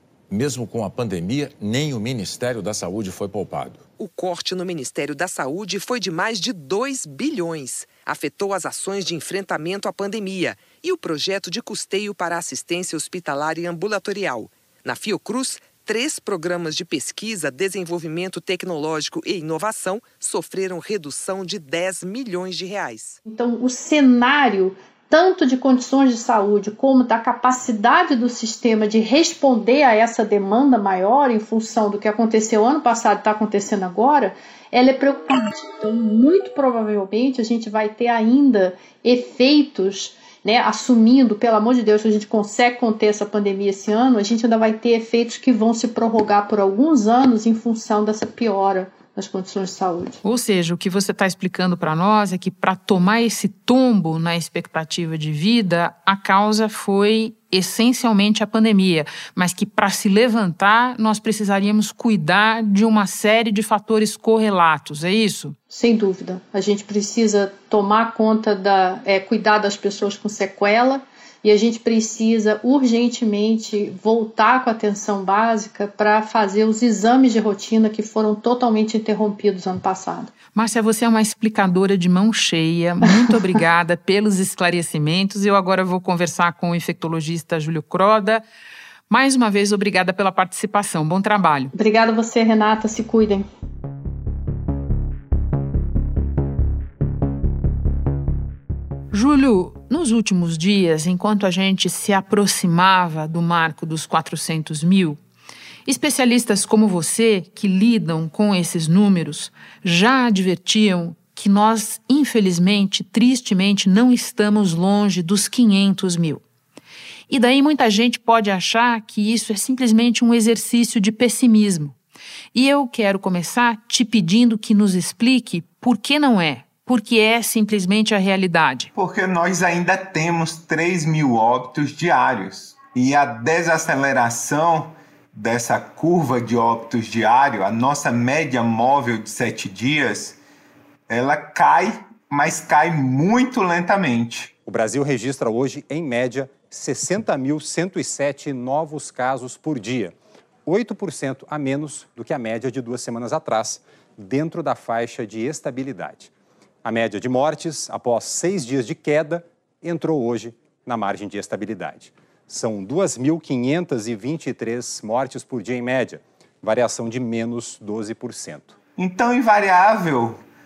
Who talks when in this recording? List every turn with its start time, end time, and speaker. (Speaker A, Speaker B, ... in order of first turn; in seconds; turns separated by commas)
Speaker A: 0.3-3.8, Speaker B: 4.0-23.2, Speaker C: 23.2-50.2, Speaker D: 50.2-65.5, Speaker C: 65.7-80.3, Speaker D: 80.5-88.4, Speaker D: 89.1-91.7, Speaker C: 91.7-93.4, Speaker D: 99.1-105.2, Speaker D: 105.8-116.4, Speaker D: 117.3-122.0, Speaker D: 122.5-128.9, Speaker E: 128.9-140.4, Speaker E: 141.1-144.5, Speaker F: 144.7-150.1, Speaker F: 150.7-156.3, Speaker F: 156.8-168.8, Speaker E: 168.9-170.4